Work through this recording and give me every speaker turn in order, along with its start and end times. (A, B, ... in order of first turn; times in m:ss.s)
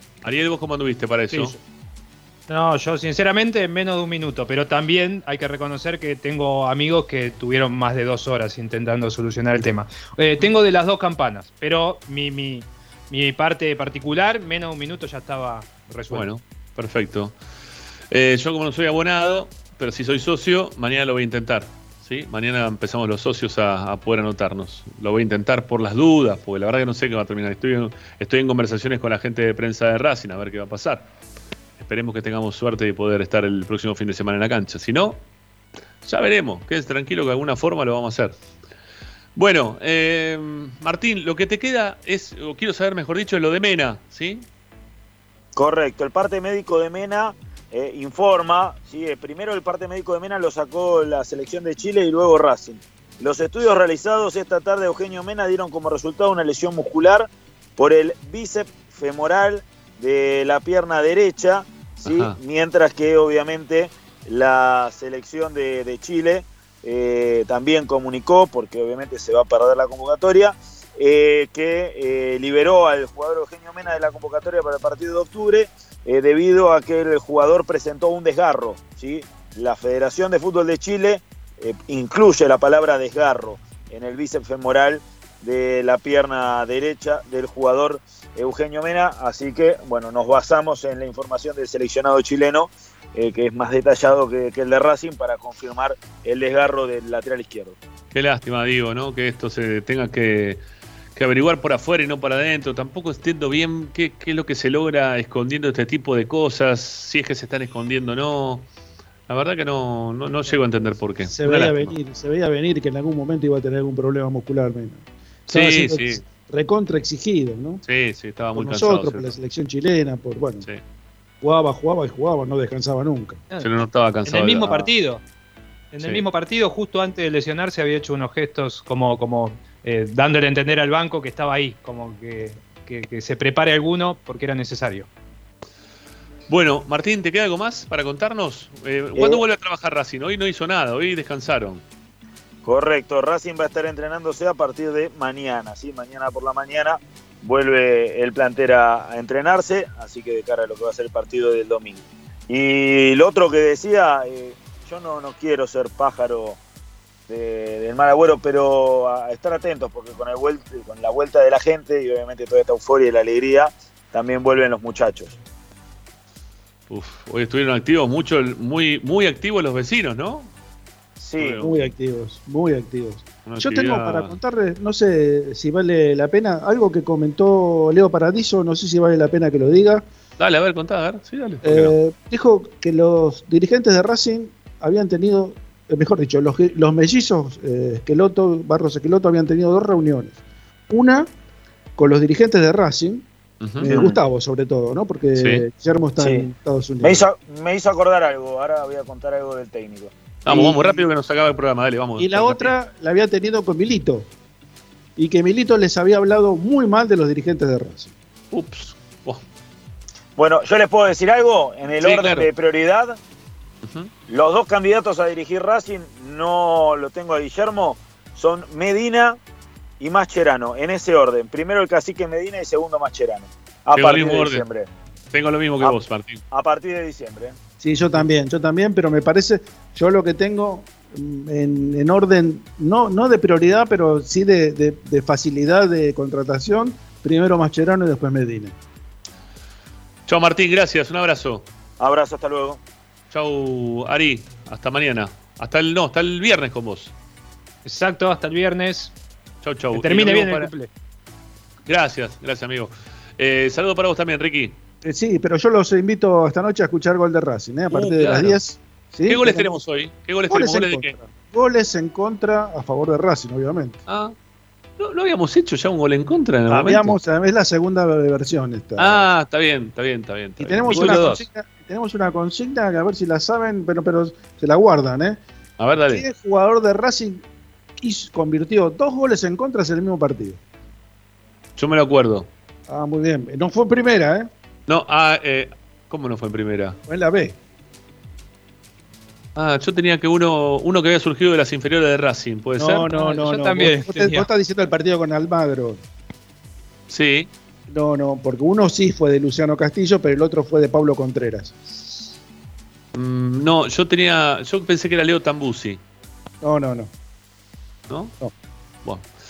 0:00.2-0:01.6 A
0:02.5-0:16.3 B
0:16.1-0:17.4 A
0:18.1-0:31.1 A
0:31.8-0:35.2 A
0:36.0-0:38.4 A
0:39.4-0:44.5 A
0:45.6-1:37.8 C
1:02.0-1:02.4 A
1:38.1-1:40.6 A
1:41.2-1:48.7 A
1:49.3-1:52.0 A
1:51.3-1:57.8 D
1:55.5-1:56.2 A
1:57.8-1:59.3 A
1:58.6-2:00.7 D
2:01.4-2:03.4 D
2:03.6-2:04.9 A
2:04.3-2:05.2 B
2:05.9-2:15.1 B
2:16.5-2:21.8 A
2:19.2-2:19.4 C
2:22.6-2:36.6 C
2:37.3-2:45.4 C
2:46.9-2:50.5 A
2:51.2-2:51.6 C
2:51.4-2:51.9 A
2:51.6-3:00.0 D
2:53.5-2:54.4 A
3:00.4-3:02.0 A
3:01.6-3:10.4 D
3:10.9-3:11.3 D
3:12.0-3:13.2 D
3:13.6-3:14.1 A
3:13.8-3:17.3 D
3:13.9-3:14.2 C
3:15.4-3:15.6 A
3:16.2-3:16.5 C
3:17.0-3:20.1 C
3:20.4-3:22.7 A
3:20.5-3:21.0 D
3:22.2-3:24.3 D
3:25.2-3:28.1 D
3:28.5-3:29.4 A
3:30.4-3:33.2 C
3:32.0-3:32.5 A
3:33.8-3:34.1 A
3:34.3-3:39.4 C
3:40.0-3:44.9 C
3:44.0-3:44.6 A
3:45.3-3:46.4 A
3:46.5-3:47.6 C
3:47.8-3:58.8 D
4:00.3-4:01.6 A
4:02.0-4:02.8 C
4:03.3-4:07.1 A
4:07.8-4:09.1 B
4:09.6-4:10.7 A
4:09.9-4:10.9 B
4:11.9-4:14.8 A
4:15.0-4:19.7 D
4:17.9-4:18.6 A
4:19.3-4:21.2 A
4:20.5-4:24.0 D
4:24.1-4:24.4 A
4:25.0-4:27.2 A
4:26.7-4:29.3 D
4:29.0-4:31.5 A
4:30.6-4:35.4 D
4:35.8-4:36.2 A
4:36.1-4:37.4 D
4:38.0-4:40.6 D
4:41.8-4:42.5 A
4:42.9-4:44.5 D
4:44.9-4:47.0 A
4:47.1-4:47.6 D
4:49.6-4:53.1 A
4:52.8-4:56.0 D
4:53.1-4:54.5 B
4:57.1-4:57.5 A
4:57.9-5:01.8 D
5:03.1-5:06.0 A
5:06.6-5:07.1 D
5:08.1-5:08.4 A